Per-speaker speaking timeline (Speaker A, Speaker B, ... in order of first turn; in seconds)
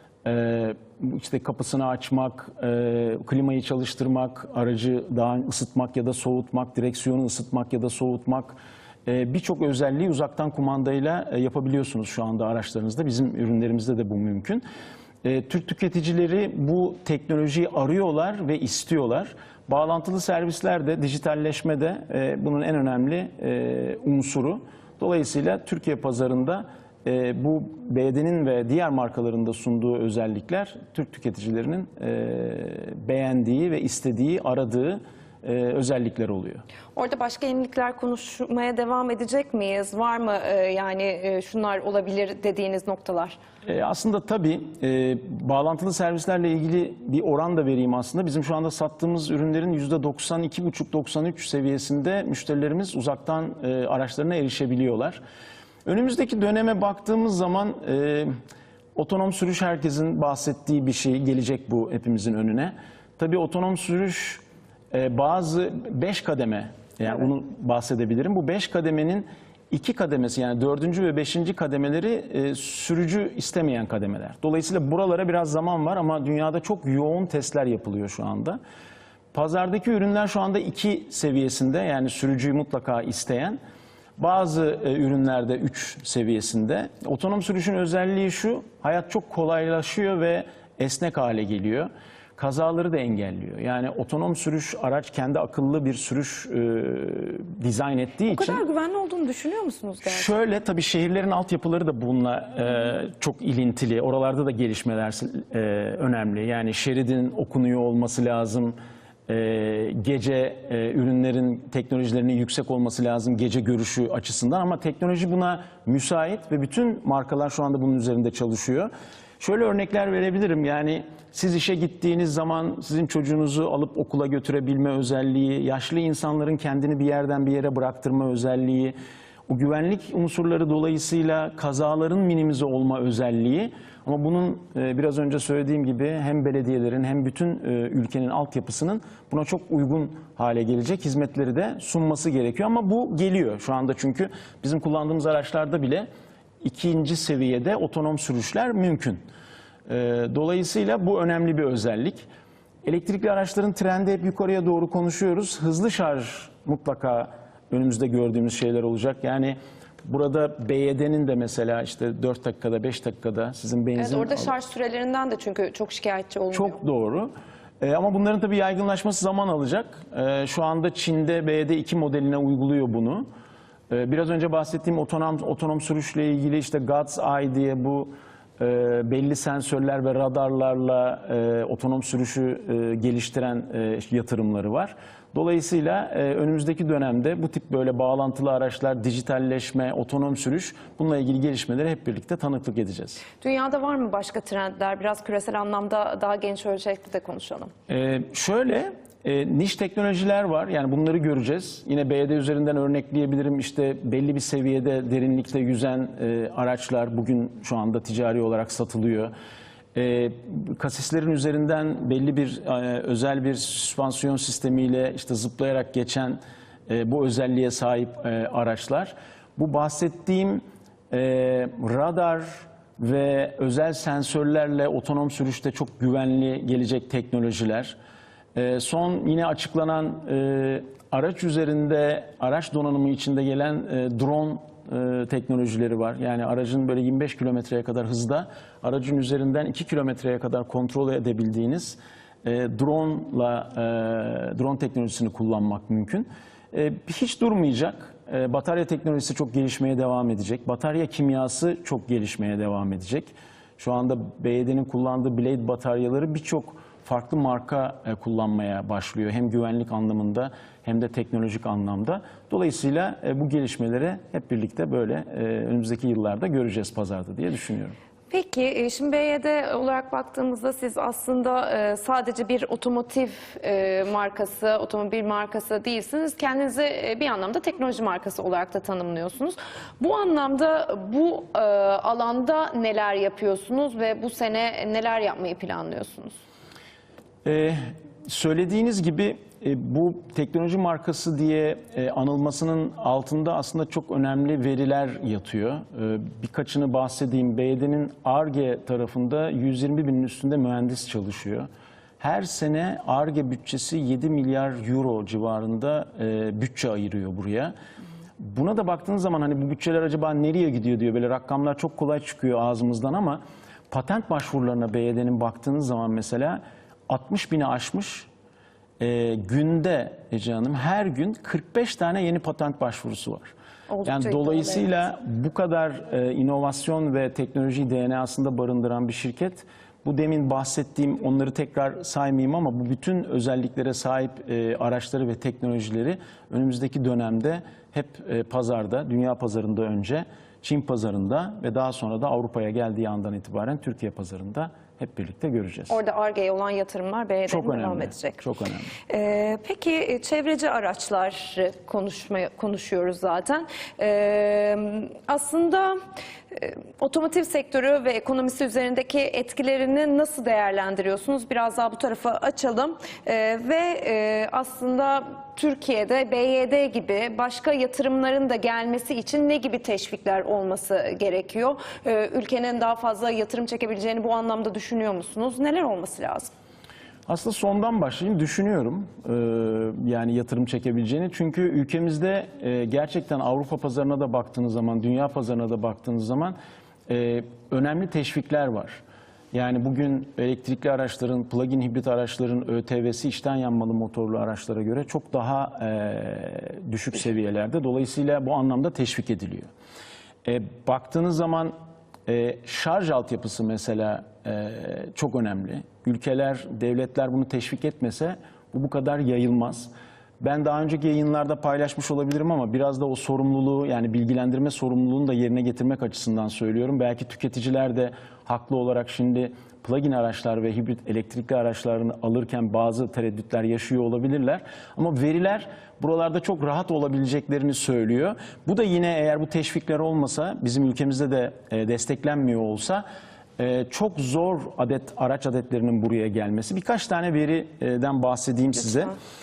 Speaker A: 0.2-14.6, 15.2-36.6, 43.6-55.2, 55.8-58.3, 58.9-78.6, 79.3-83.6, 84.2-98.6, 100.0-108.8, 109.3-128.9, 129.5-146.1, 146.6-149.2, 149.9-152.3, 152.8-164.5, 166.5-173.2, 173.9-193.2, 197.9-209.3, 209.9-227.9, 228.5-267.9, 287.4-301.7, 302.2-307.7, 308.4-318.3, 319.0-323.5, 324.0-346.0, 347.5-348.9, 377.3-386.6, 387.1-399.7, 400.4-401.7, 402.2-433.0, 433.6-439.1
Speaker B: 36.9-43.4, 98.3-100.3, 163.9-166.8, 193.4-197.7, 268.3-286.4, 323.9-325.1, 345.9-348.4, 349.1-355.9, 356.5-376.5